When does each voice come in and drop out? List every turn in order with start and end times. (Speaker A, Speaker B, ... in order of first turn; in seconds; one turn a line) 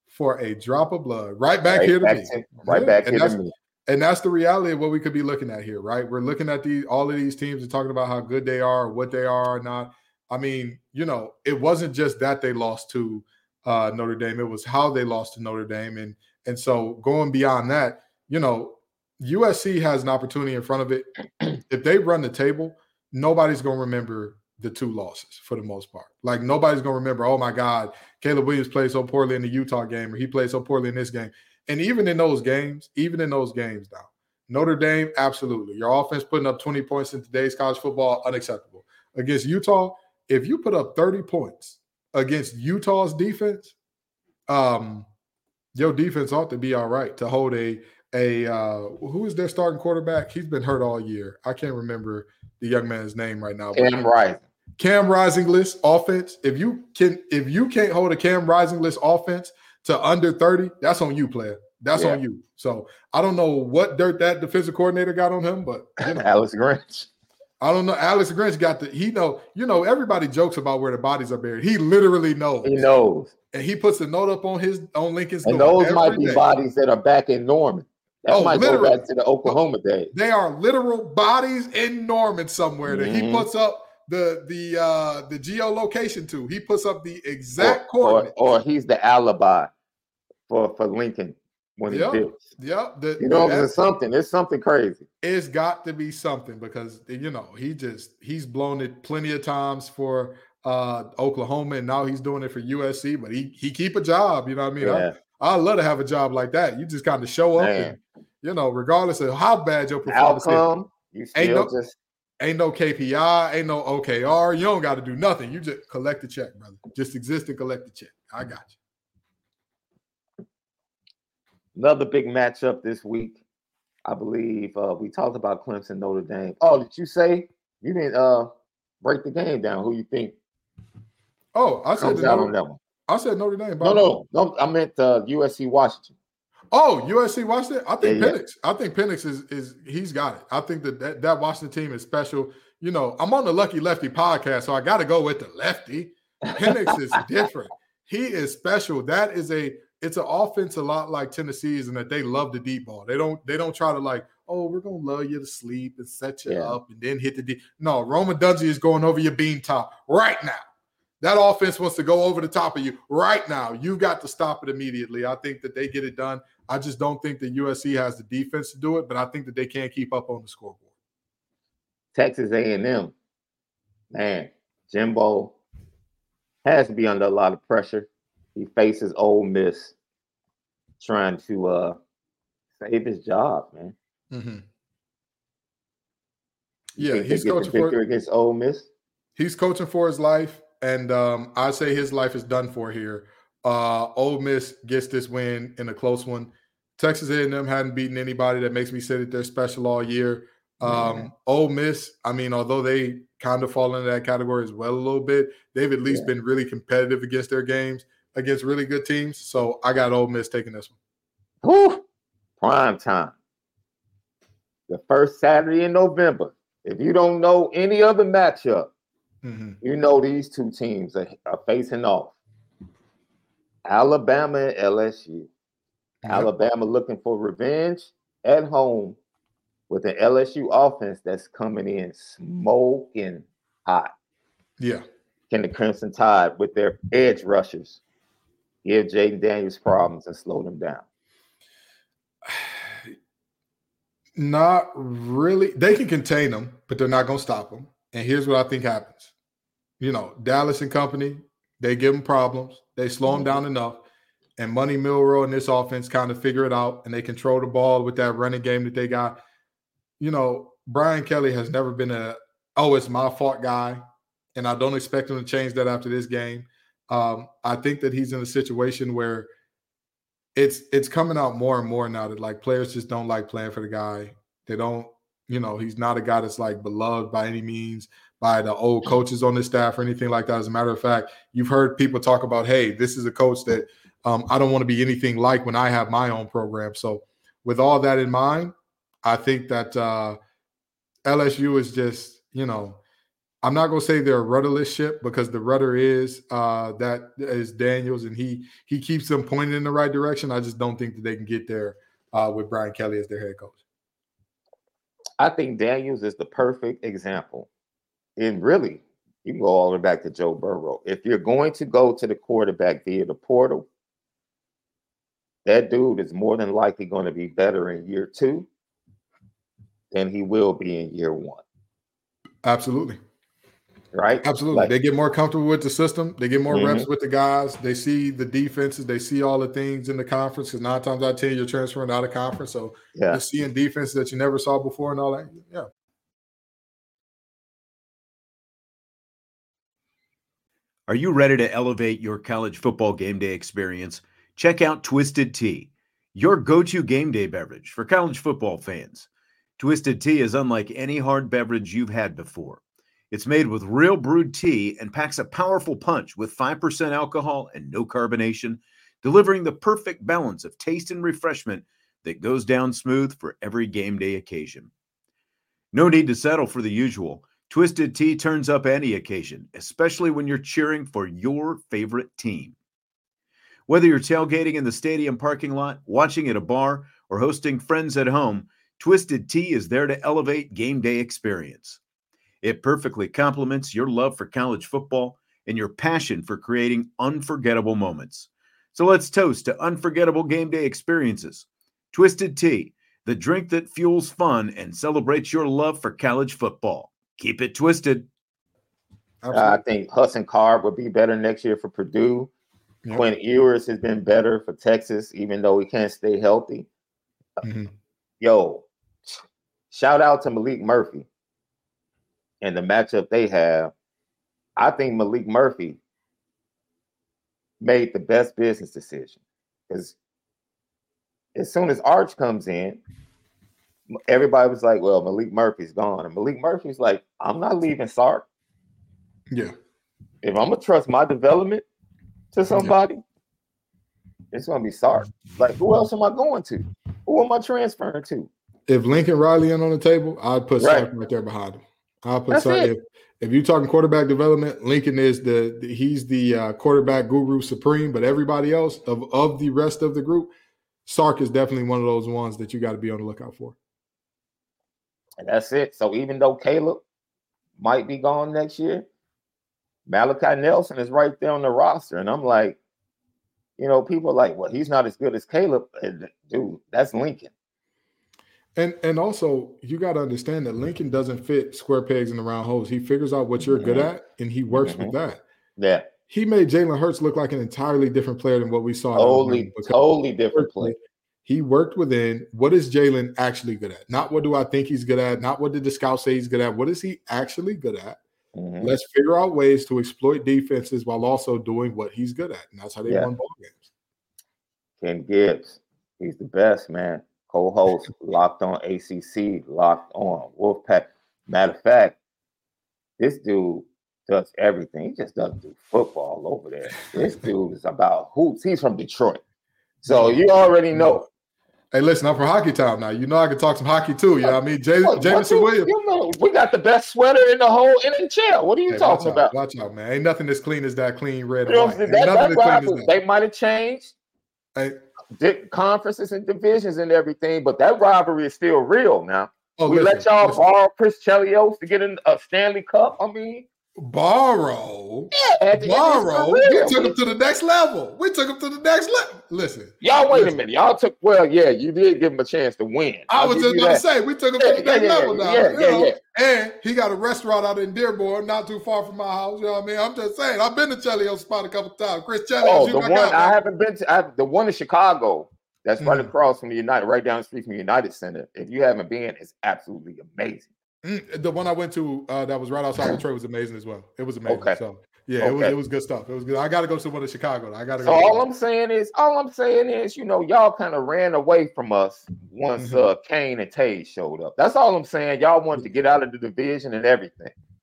Speaker A: 0.1-21.1
Speaker B: 1.7-3.5
Speaker A: 21.7-43.7
Speaker A: 44.5-45.1
Speaker A: 45.8-54.0
Speaker B: 53.7-54.4
Speaker A: 54.8-66.3
Speaker B: 62.0-62.2
Speaker B: 66.0-67.1
Speaker A: 67.6-72.9
Speaker B: 72.6-73.3
Speaker A: 73.5-76.5
Speaker B: 75.5-80.1
Speaker A: 78.3-79.6
Speaker A: 80.1-88.3
Speaker B: 82.9-83.5
Speaker B: 87.6-89.7
Speaker B: 90.5-92.4
Speaker A: 91.9-93.7
Speaker B: 93.2-95.1
Speaker A: 95.2-110.7
Speaker B: 104.8-105.1
Speaker B: 107.6-108.0
Speaker B: 110.1-112.0
Speaker A: 111.3-111.7
Speaker A: 112.4-118.8
Speaker B: 121.8-123.4
Speaker B: 124.0-128.5
Speaker B: 129.0-130.4
Speaker A: 131.6-132.5
Speaker B: 132.0-132.8
Speaker A: 133.1-134.1
Speaker B: 133.8-136.1
Speaker A: 136.7-160.6
Speaker B: 138.0-138.4
Speaker B: 146.5-146.9
Speaker B: 156.5-156.8
Speaker A: 161.2-170.9
Speaker B: 172.1-173.1
Speaker B: 174.1-175.6
Speaker B: 176.7-179.9
Speaker B: 181.0-182.0
Speaker B: 182.8-183.9
Speaker A: 184.3-184.6
Speaker A: 187.0-188.0
Speaker B: 187.0-188.9
Speaker A: 189.4-210.9
Speaker B: 200.8-201.3
Speaker B: 211.6-212.0
Speaker B: 212.6-213.3
Speaker B: 214.9-218.9
Speaker A: 219.4-219.8
Speaker B: 219.8-222.4
Speaker B: 223.8-225.5
Speaker A: 226.2-226.5
Speaker B: 226.3-229.2
Speaker B: 229.9-234.1
Speaker A: 234.8-235.0
Speaker B: 235.5-238.0
Speaker B: 238.8-241.0
Speaker A: 242.5-243.1
Speaker A: 244.3-249.3
Speaker A: 250.0-254.0
Speaker B: 253.3-253.6
Speaker A: 254.6-259.4
Speaker A: 260.2-264.0
Speaker A: 264.6-269.5
Speaker A: 270.6-290.4
Speaker A: 291.2-293.0
Speaker A: 293.6-303.8
Speaker B: 305.4-307.7
Speaker B: 308.4-313.9
Speaker B: 315.6-318.7
Speaker B: 320.1-321.6
Speaker A: 322.6-323.2
Speaker B: 324.1-324.9
Speaker A: 324.4-335.9
Speaker B: 326.7-327.1
Speaker B: 333.1-333.4
Speaker C: 341.1-364.9
Speaker C: 365.9-372.8
Speaker C: 373.9-382.0
Speaker C: 382.6-398.3
Speaker A: 399.4-399.8
Speaker B: 399.5-402.5
Speaker B: 403.1-406.9
Speaker A: 407.6-407.9
Speaker B: 408.4-409.4
Speaker B: 409.9-411.3
Speaker B: 412.6-413.9
Speaker B: 414.8-416.0
Speaker B: 417.8-419.4
Speaker B: 419.9-420.2
Speaker B: 421.6-423.0
Speaker B: 424.1-428.5
Speaker B: 430.4-431.9
Speaker B: 432.5-433.2
Speaker B: 434.5-438.5
Speaker A: 438.9-450.5
Speaker B: 440.8-441.1
Speaker B: 442.5-442.9
Speaker A: 451.1-453.8
Speaker B: 455.4-457.0
Speaker B: 457.8-459.1
Speaker B: 460.1-462.8
Speaker B: 463.8-467.5
Speaker A: 468.8-475.4
Speaker B: 473.6-474.1
Speaker B: 474.7-475.1
Speaker B: 475.8-476.1
Speaker A: 476.3-480.0
Speaker B: 479.1-480.9
Speaker A: 480.6-488.2
Speaker B: 488.6-488.9
Speaker A: 488.8-493.9
Speaker B: 495.0-502.2
Speaker B: 503.2-509.4
Speaker A: 510.0-511.3
Speaker B: 510.1-511.2
Speaker A: 511.9-515.9
Speaker B: 514.4-519.5
Speaker A: 518.9-523.1
Speaker B: 521.7-524.1
Speaker B: 525.4-533.7
Speaker A: 529.8-530.6
Speaker A: 534.0-540.6
Speaker B: 535.3-537.1
Speaker B: 540.0-544.0
Speaker A: 543.3-553.6
Speaker B: 544.6-546.2
Speaker B: 552.6-560.7
Speaker A: 556.0-556.3
Speaker A: 561.0-568.4
Speaker B: 564.5-564.8
Speaker B: 565.4-565.8
Speaker B: 568.0-577.5
Speaker A: 572.8-573.1